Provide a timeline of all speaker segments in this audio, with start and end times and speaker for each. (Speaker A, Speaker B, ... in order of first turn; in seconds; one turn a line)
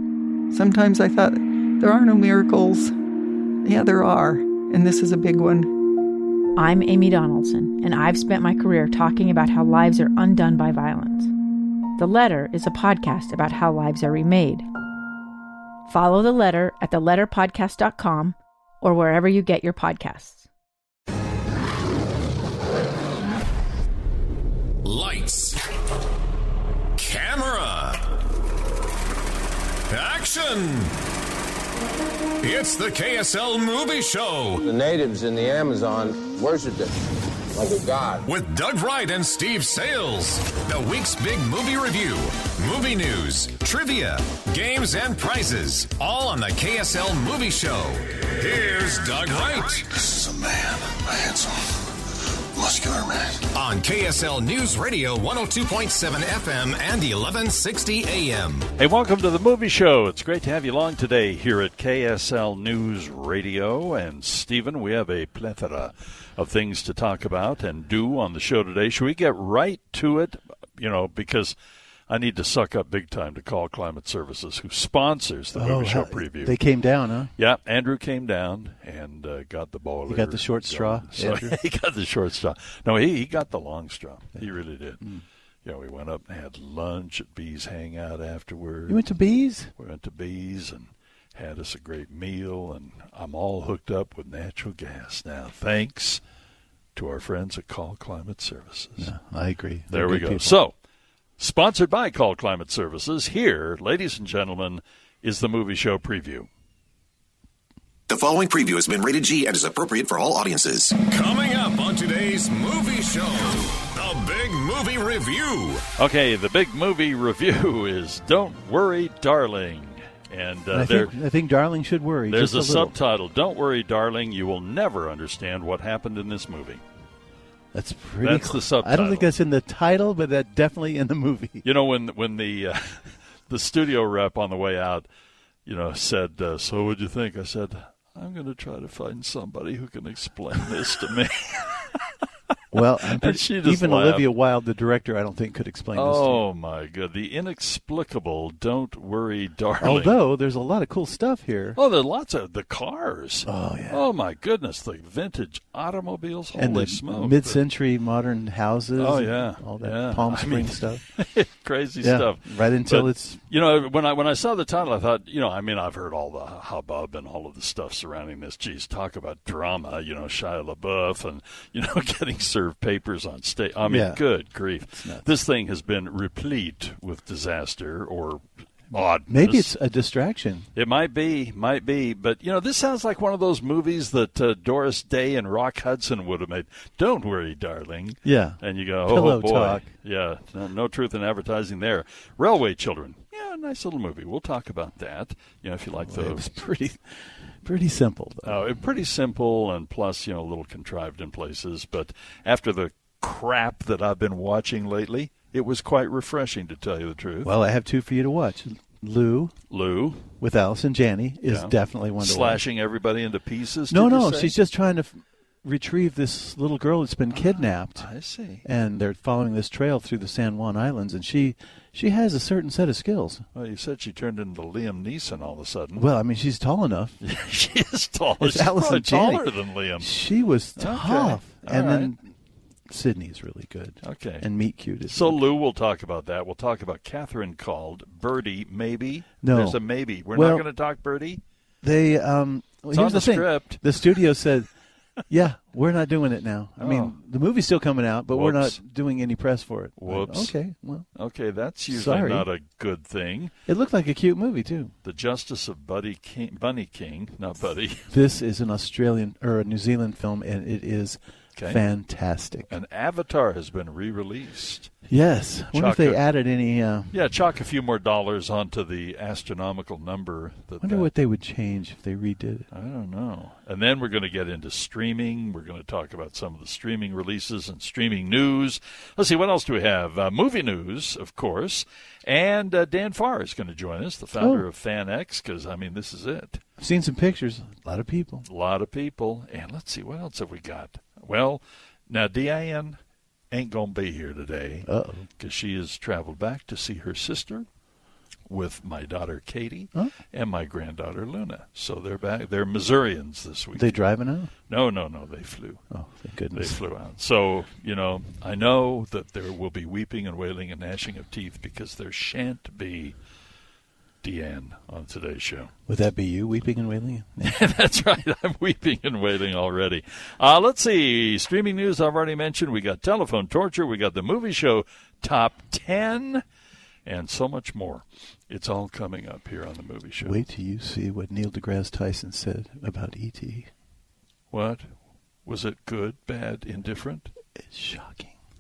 Speaker A: 0.5-2.9
Speaker A: 3.6-5.7
Speaker B: 6.5-11.3
Speaker B: 12.0-14.7
Speaker B: 15.9-20.5
Speaker C: 24.8-25.6
Speaker C: 26.9-28.0
Speaker C: 29.9-30.9
Speaker C: 32.4-34.6
Speaker D: 34.6-36.9
Speaker D: 37.5-38.3
Speaker C: 38.3-50.0
Speaker C: 53.5-58.7
Speaker E: 58.8-71.5
Speaker E: 72.1-76.6
Speaker F: 75.5-77.3
Speaker E: 77.4-85.0
Speaker F: 80.1-81.6
Speaker E: 85.6-89.0
Speaker F: 88.9-89.7
Speaker E: 89.8-96.2
Speaker E: 97.0-99.1
Speaker F: 99.0-100.6
Speaker E: 99.9-100.7
Speaker E: 101.4-106.5
Speaker G: 108.1-111.0
Speaker C: 111.0-115.9
Speaker E: 116.0-121.1
Speaker F: 120.7-122.9
Speaker E: 122.3-126.8
Speaker F: 127.7-131.7
Speaker E: 128.2-129.3
Speaker E: 131.6-135.1
Speaker E: 135.7-142.0
Speaker F: 142.7-146.4
Speaker E: 142.8-144.3
Speaker E: 145.9-150.2
Speaker F: 149.8-151.8
Speaker E: 151.8-157.6
Speaker F: 153.5-154.0
Speaker F: 156.5-161.0
Speaker E: 159.0-179.7
Speaker F: 162.0-163.4
Speaker F: 173.8-174.2
Speaker F: 175.0-175.2
Speaker F: 179.3-180.7
Speaker E: 180.8-196.5
Speaker F: 188.2-189.8
Speaker F: 196.0-198.6
Speaker E: 198.4-207.5
Speaker F: 207.4-209.5
Speaker E: 209.7-210.3
Speaker F: 210.4-212.6
Speaker E: 211.5-214.5
Speaker F: 213.9-218.1
Speaker E: 217.3-218.7
Speaker F: 218.6-223.4
Speaker E: 223.5-226.1
Speaker F: 226.0-227.2
Speaker E: 227.2-230.1
Speaker F: 228.4-229.4
Speaker F: 230.0-232.3
Speaker E: 230.8-232.1
Speaker F: 232.9-235.4
Speaker E: 234.0-234.5
Speaker E: 235.1-241.4
Speaker F: 239.4-239.8
Speaker F: 240.3-240.7
Speaker F: 241.8-244.7
Speaker E: 242.9-243.8
Speaker F: 245.3-251.1
Speaker E: 246.8-247.2
Speaker E: 248.3-248.8
Speaker E: 250.0-250.5
Speaker E: 251.2-253.5
Speaker F: 251.9-252.5
Speaker F: 253.7-254.9
Speaker E: 255.0-258.1
Speaker F: 258.1-262.7
Speaker E: 261.6-261.8
Speaker E: 262.7-264.9
Speaker F: 265.1-267.1
Speaker E: 265.7-266.2
Speaker E: 267.1-271.1
Speaker F: 270.8-272.7
Speaker E: 272.7-286.6
Speaker F: 284.4-284.6
Speaker F: 286.8-288.4
Speaker E: 288.5-293.0
Speaker E: 293.5-294.9
Speaker F: 294.8-295.3
Speaker E: 295.4-297.6
Speaker E: 298.5-304.0
Speaker F: 303.7-304.5
Speaker E: 304.7-305.8
Speaker F: 305.9-306.8
Speaker E: 306.5-313.1
Speaker E: 314.2-315.7
Speaker F: 315.9-317.4
Speaker E: 317.4-326.4
Speaker E: 327.1-330.4
Speaker F: 330.2-333.7
Speaker E: 334.5-334.9
Speaker E: 335.4-337.3
Speaker F: 337.6-338.3